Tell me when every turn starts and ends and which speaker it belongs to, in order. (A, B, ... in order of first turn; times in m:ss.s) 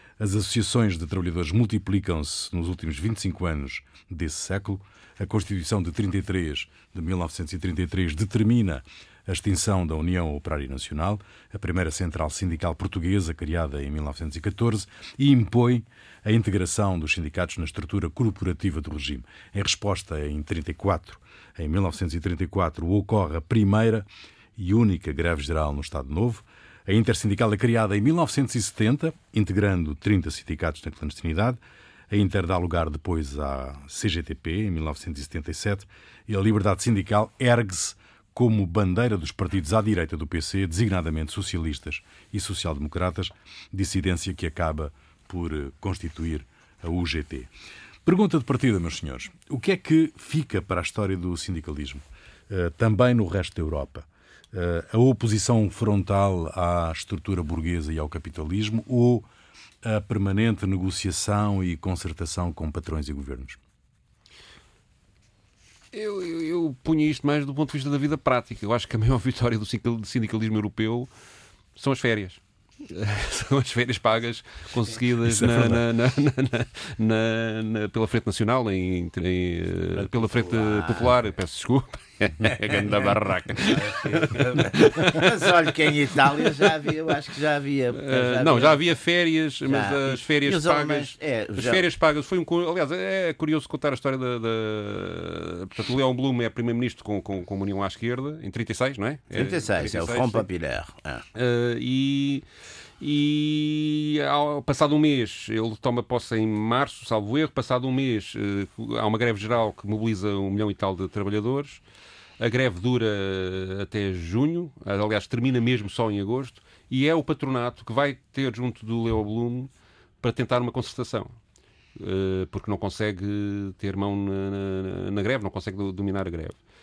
0:00.2-0:47.5 A
0:48.0-0:59.3 A
0:59.8-1:03.6 A
1:05.9-1:11.1 B
1:11.8-1:25.5 B
1:15.2-1:15.8 A
1:20.0-1:21.2 C
1:22.7-1:28.8 C
1:26.4-1:26.7 B
1:28.0-1:40.4 B
1:29.7-1:31.8 C
1:39.3-1:41.2 C
1:41.3-1:42.4 B
1:43.0-1:51.8 B
1:52.4-2:01.4 B
2:02.0-2:06.6 B